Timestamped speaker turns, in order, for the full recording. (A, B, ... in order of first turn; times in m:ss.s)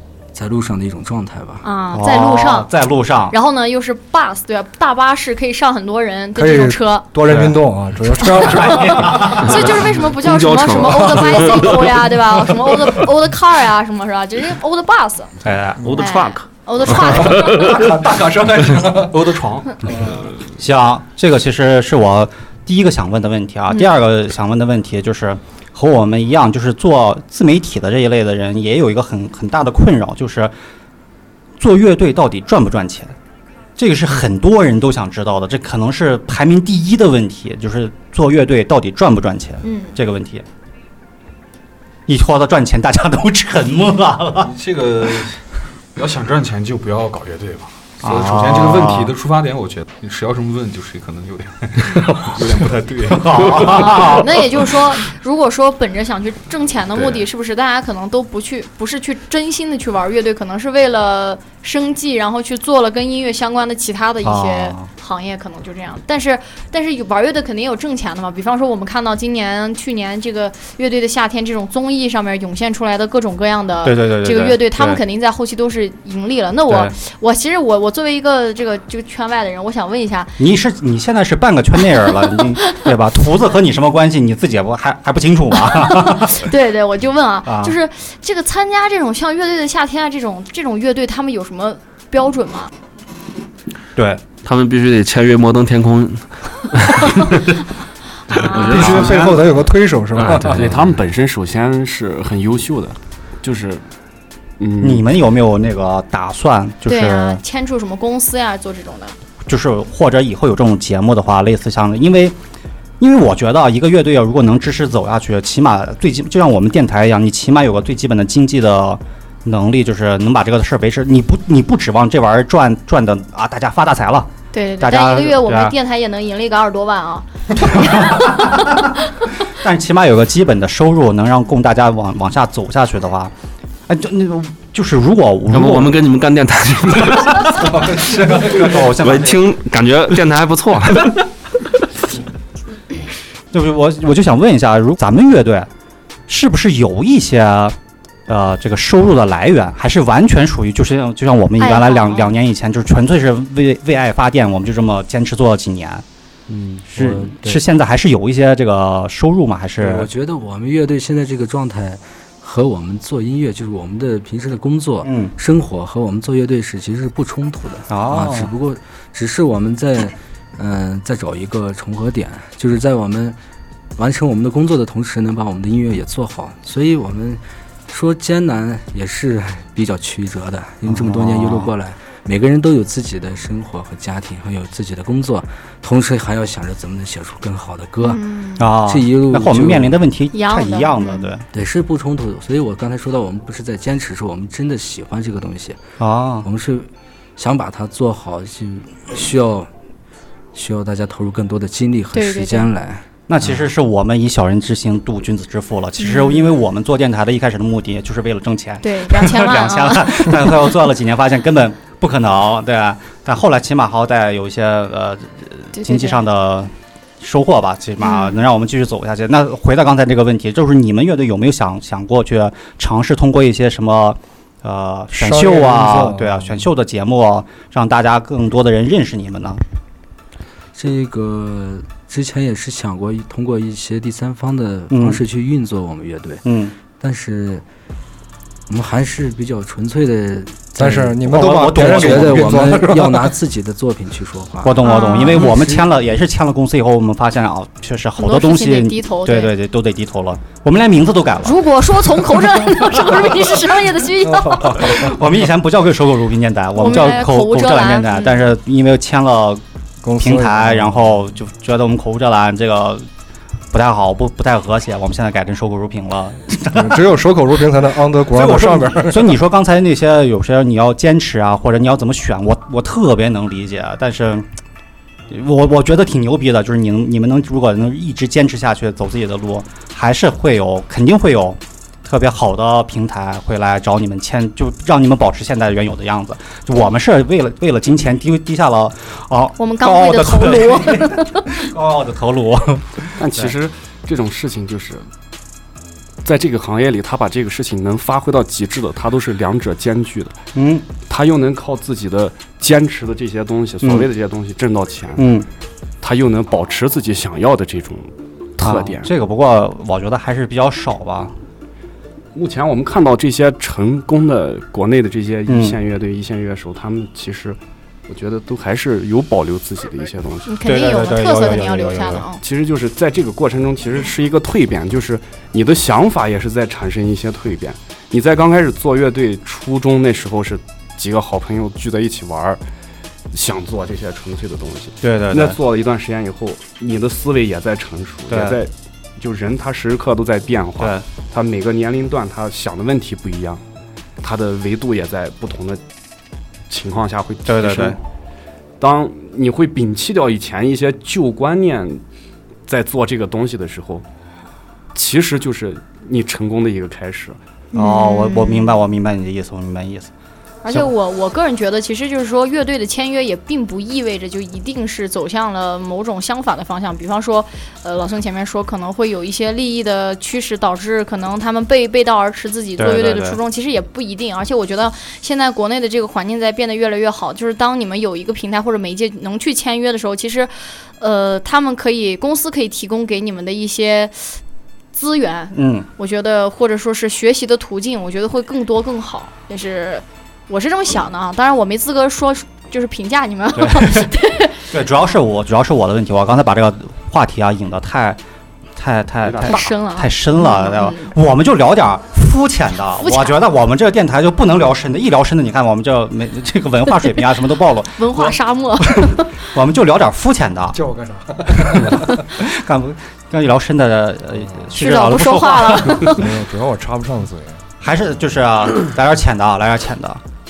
0:00.3-0:01.7 A
0:01.6-0:02.7 B
0:01.9-0:03.4 C
0:03.3-0:07.2 B
0:06.4-0:09.3 D
0:07.3-0:07.6 C
0:08.2-0:15.4 B
0:08.8-0:09.4 C
0:09.4-0:12.1 E
0:15.4-0:15.9 C
0:15.8-0:18.0 E
0:16.0-0:17.9 B
0:17.4-0:19.1 D
0:18.8-0:19.7 F
0:19.9-0:20.2 D
0:20.6-0:30.5 C
0:31.6-0:33.2 C
0:33.8-0:40.4 C
0:39.6-0:40.0 B
0:42.1-0:44.5 C
0:44.4-0:45.4 F
0:46.0-0:53.7 F
0:48.0-0:49.1 C
0:53.1-0:54.4 C
0:53.6-0:54.1 E
0:54.1-1:20.4 B
1:04.2-1:04.9 C
1:13.8-1:15.0 C
1:16.7-1:16.9 C
1:20.4-1:26.5 C
1:22.6-1:22.9 B
1:25.7-1:32.7 B
1:27.5-1:27.8 C
1:34.0-1:34.2 C
1:34.4-1:37.6 E
1:38.3-1:39.0 B
1:38.3-1:39.4 E
1:38.7-1:40.6 D
1:39.0-1:39.3 G
1:40.2-1:40.9 E
1:40.2-1:43.8 G
1:44.6-1:45.1 G
1:44.8-1:47.4 C
1:46.9-1:49.2 B
1:49.5-1:52.4 C
1:53.0-2:05.8 C
2:04.5-2:08.8 B
2:07.6-2:08.6 C
2:09.6-2:13.3 C
2:13.9-2:16.0 C
2:15.5-2:21.2 E
2:17.6-2:18.8 D
2:18.5-2:19.4 C
2:23.5-2:25.7 C
2:26.3-2:27.8 C
2:28.3-2:36.0 C
2:31.6-2:32.4 B
2:36.5-2:37.6 A
2:36.9-2:40.1 C
2:39.8-2:53.4 A
2:45.0-2:45.3 C
2:47.9-2:48.5 C
2:54.0-3:08.2 A
3:00.9-3:01.7 C
3:08.0-3:08.7 B
3:08.6-3:11.4 C
3:08.8-3:10.0 A
3:10.3-3:11.3 B
3:11.5-3:15.8 A
3:16.0-3:16.5 C
3:16.4-3:19.7 A
3:20.5-3:23.6 A
3:22.1-3:22.7 B
3:23.3-3:49.6 C
3:26.0-3:26.6 B
3:28.8-3:30.8 B
3:35.7-3:36.2 B
3:38.0-3:38.4 B
3:45.1-3:46.7 D
3:50.8-3:56.4 A
3:54.9-3:55.2 C
3:56.4-3:56.7 C
3:57.0-3:57.6 A
3:58.7-4:05.9 A
4:00.8-4:03.3 D
4:01.3-4:02.6 C
4:04.6-4:11.6 C
4:04.8-4:05.6 B
4:08.2-4:09.5 B
4:11.4-4:15.2 B
4:14.7-4:19.6 C
4:16.8-4:18.5 B
4:20.0-4:21.1 D
4:20.2-4:23.1 C
4:23.7-4:27.0 C
4:26.7-4:29.4 D
4:28.2-4:34.5 C
4:35.3-4:53.5 C
4:49.6-4:51.6 B
4:53.2-4:55.1 G
4:56.2-5:00.4 G
5:00.6-5:00.9 C
5:01.1-5:05.3 G
5:05.2-5:05.5 C
5:06.0-5:09.1 G
5:08.6-5:11.4 C
5:12.4-5:20.5 G
5:15.5-5:15.8 C
5:20.5-5:22.4 B
5:20.6-5:22.3 C
5:22.4-5:32.6 G
5:33.3-5:43.6 G
5:35.0-5:35.6 C
5:38.3-5:38.6 C
5:40.8-5:41.0 C
5:44.2-5:45.8 G
5:46.7-5:48.0 G
5:47.5-5:48.0 C
5:48.8-5:52.0 G
5:52.7-5:54.1 G
5:54.9-5:57.4 G
5:57.7-5:58.8 B
5:57.8-6:00.1 C
6:00.6-6:24.4 B
6:12.8-6:13.4 C
6:24.9-6:34.7 B
6:25.5-6:25.9 C
6:33.6-6:34.1 C
6:34.7-6:38.2 C
6:38.8-6:50.8 C
6:39.2-6:39.6 G
6:39.4-6:41.1 B
6:43.0-6:43.4 B
6:48.0-6:49.3 B
6:50.7-6:52.1 D
6:51.7-6:56.1 C
6:54.7-6:56.3 B
6:56.1-6:57.6 D
6:57.8-7:00.2 C